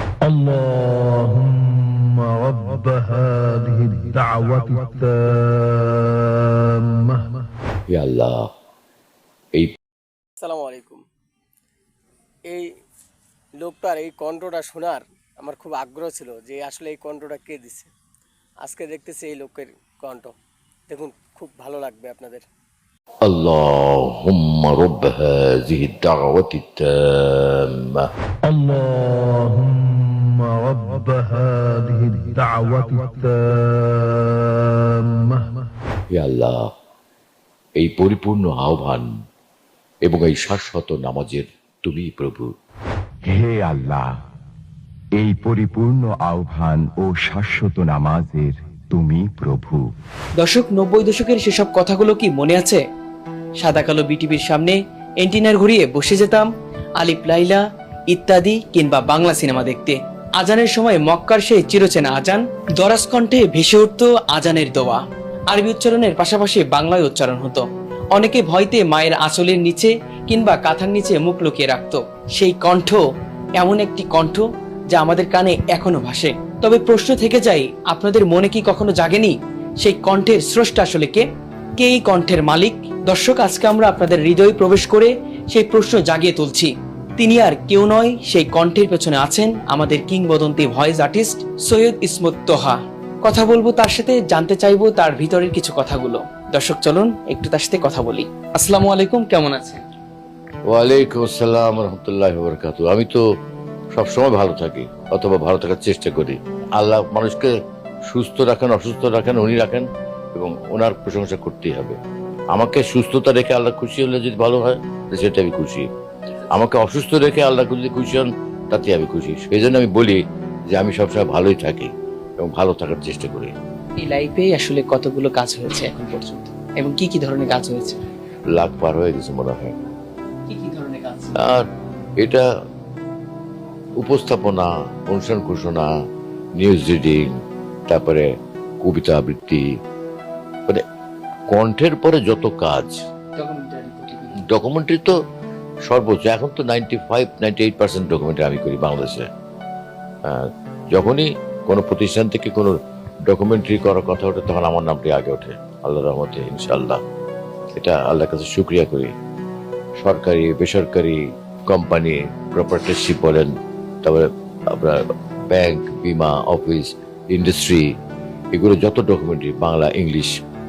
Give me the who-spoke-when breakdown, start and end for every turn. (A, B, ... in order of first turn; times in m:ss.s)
0:00.2-0:07.4 A
0:07.9-0:08.5 B
0:10.4-0:11.0 C
0:13.6-0:17.9 C
0:18.6-0:20.3 C
0:20.9-0:22.4 C
0:23.2-0:28.1 B
0:28.4-0:35.5 A
0:36.1-0:36.7 B
0:37.8-0:39.1 B
0:40.0-0:42.5 B
0:43.2-0:44.1 D
0:45.2-0:49.9 D
0:50.4-0:52.8 E
0:53.6-0:56.5 E
0:57.0-1:13.0 E
1:13.6-1:21.2 E
1:21.8-1:39.8 E
1:40.7-1:43.2 B
1:43.9-1:47.5 B
1:48.1-1:52.0 B
1:52.5-1:55.9 B
1:56.5-2:00.2 B
2:00.7-2:03.5 B
2:04.0-2:08.0 E
2:08.5-2:09.7 B
2:10.5-2:11.4 E
2:11.4-2:11.6 B
2:12.2-2:12.4 B
2:14.0-2:15.9 B
2:16.6-2:17.4 B
2:17.9-2:18.3 B
2:18.8-2:19.6 B
2:21.5-2:23.0 B
2:23.4-2:24.4 E
2:24.3-2:25.1 B
2:25.8-2:29.3 B
2:30.2-2:37.0 B
2:37.8-2:39.1 B
2:40.0-2:43.5 B
2:44.0-2:47.9 B
2:48.5-2:50.3 B